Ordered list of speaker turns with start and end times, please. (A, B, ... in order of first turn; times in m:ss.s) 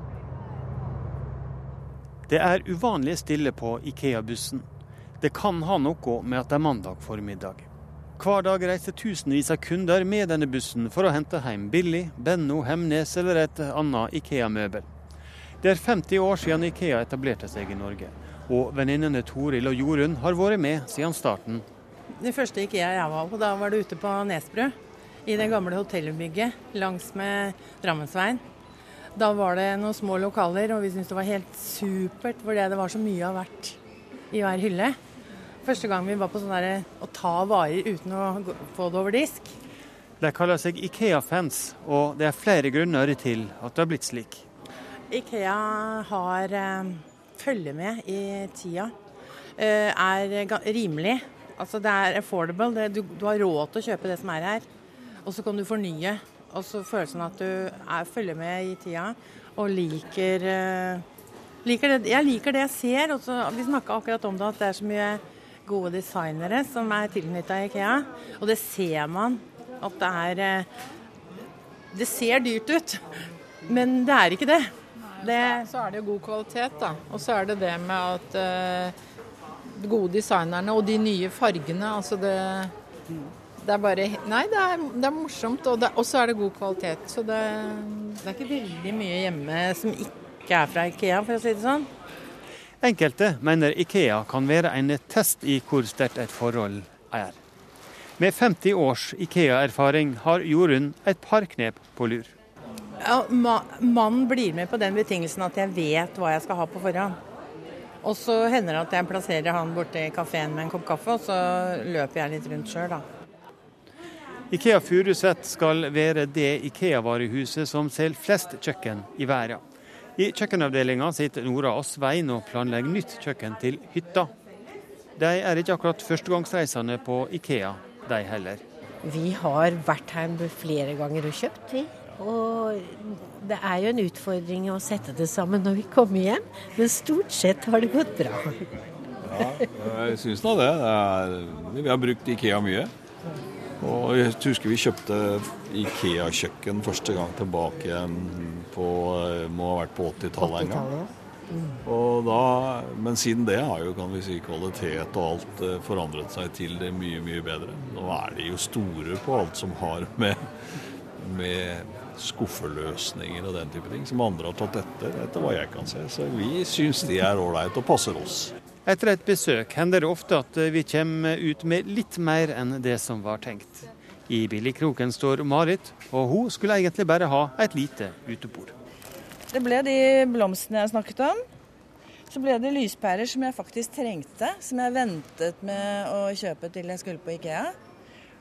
0:02.3-0:04.6 A
0:05.2-0:07.7 A
0:08.2-0:14.9 A
0:15.6-0:21.6 A
0:22.2-0:24.7 B
0:25.3-0:28.4 B
0:29.2-0:33.8 B
0:34.3-0:35.0 B
0:35.6-0:39.5 B
0:40.2-0:44.4 A
0:45.1-0:48.9 B
0:49.6-0:54.7 B
0:55.2-1:01.0 B
1:01.6-1:10.7 B
1:11.9-1:13.0 B
1:13.7-1:15.7 B
1:15.2-1:19.0 C
1:19.8-1:22.7 C
1:23.6-1:28.1 C
1:28.2-1:31.9 B
1:32.8-1:37.4 A
1:38.2-1:42.3 A
1:43.0-1:47.2 B
1:48.0-1:53.0 B
1:54.5-1:59.6 A
2:00.2-2:04.3 A
2:05.2-2:08.6 A
2:09.0-2:18.6 D
2:19.2-2:22.9 E
2:19.3-2:19.6 D
2:23.8-2:31.0 E
2:30.4-2:31.0 D
2:31.8-2:40.4 E
2:41.2-2:48.5 E
2:48.8-2:58.7 A
2:59.5-3:01.4 F
3:02.3-3:07.7 F